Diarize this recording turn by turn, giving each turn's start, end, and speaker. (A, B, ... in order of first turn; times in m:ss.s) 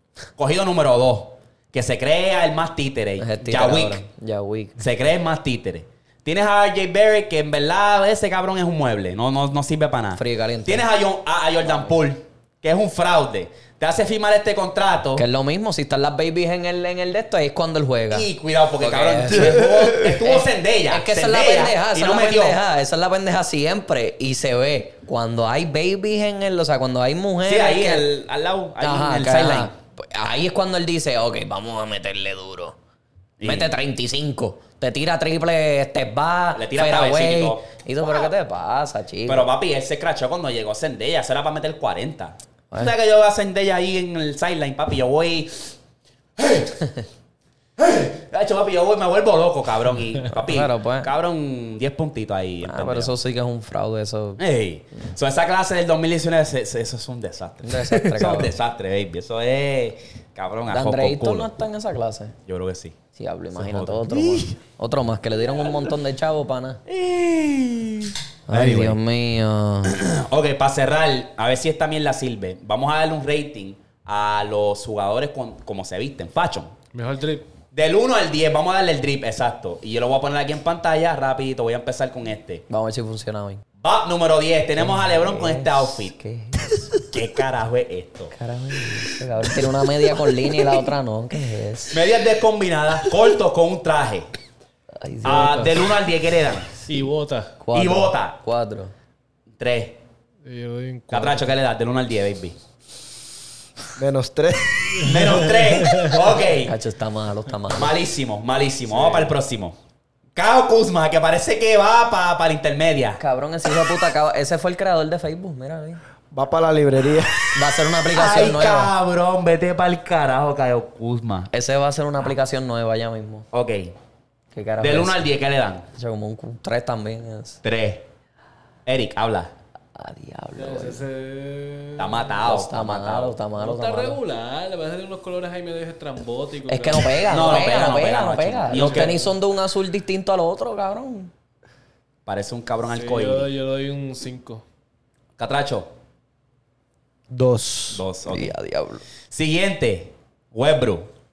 0:00.4-0:04.0 A
0:03.2-0:04.8 B
0:04.8-0:15.2 A
0:10.2-0:10.8 B
0:15.2-0:18.3 B
0:18.1-0:22.6 A
0:18.8-0:28.0 B
0:19.4-0:19.9 C
0:27.5-0:29.7 A
0:28.8-0:32.8 B
0:33.4-0:33.7 A
0:33.4-0:39.5 B
0:36.6-0:38.3 A
0:39.3-0:45.7 A
0:46.4-0:46.9 A
0:47.8-0:53.1 A
0:50.3-0:51.1 B
0:52.6-0:54.4 B
0:54.4-1:01.5 A
0:57.6-0:58.5 B
1:00.7-1:02.4 B
1:02.5-1:03.0 A
1:03.2-1:06.8 B
1:03.6-1:04.6 A
1:06.9-1:09.0 A
1:08.5-1:10.0 B
1:09.8-1:16.7 A
1:16.9-1:17.5 D
1:17.7-1:22.6 A
1:22.7-1:23.6 B
1:23.8-1:26.2 A
1:24.8-1:26.9 B
1:27.0-1:28.3 A
1:28.3-1:32.0 B
1:31.9-1:34.3 A
1:35.0-1:35.6 B
1:35.2-1:36.8 A
1:35.3-1:35.7 D
1:36.9-1:37.6 D
1:37.6-1:38.9 B
1:37.7-1:38.4 A
1:39.6-1:40.0 A
1:40.4-1:41.5 D
1:41.1-1:42.6 A
1:44.0-1:45.3 C
1:45.0-1:46.7 A
1:45.8-1:46.2 D
1:46.6-1:47.9 B
1:47.8-1:49.8 A
1:48.9-1:49.3 D
1:50.4-1:53.2 A
1:53.2-1:56.0 B
1:56.3-1:57.4 C
1:57.5-1:58.9 B
1:58.1-2:01.5 A
2:01.5-2:03.5 B
2:03.5-2:03.9 A
2:04.5-2:05.2 B
2:04.8-2:05.9 A
2:06.0-2:07.6 B
2:07.6-2:08.0 A
2:08.9-2:09.5 A
2:10.0-2:11.0 B
2:10.6-2:12.3 D
2:12.0-2:13.4 A
2:12.4-2:14.2 B
2:13.6-2:17.2 D
2:16.7-2:21.3 B
2:17.3-2:19.2 A
2:18.7-2:19.3 D
2:22.3-2:23.5 A
2:22.9-2:24.6 D
2:25.4-2:25.9 A
2:27.3-2:28.0 C
2:27.9-2:28.5 A
2:28.3-2:29.0 B
2:29.3-2:31.1 A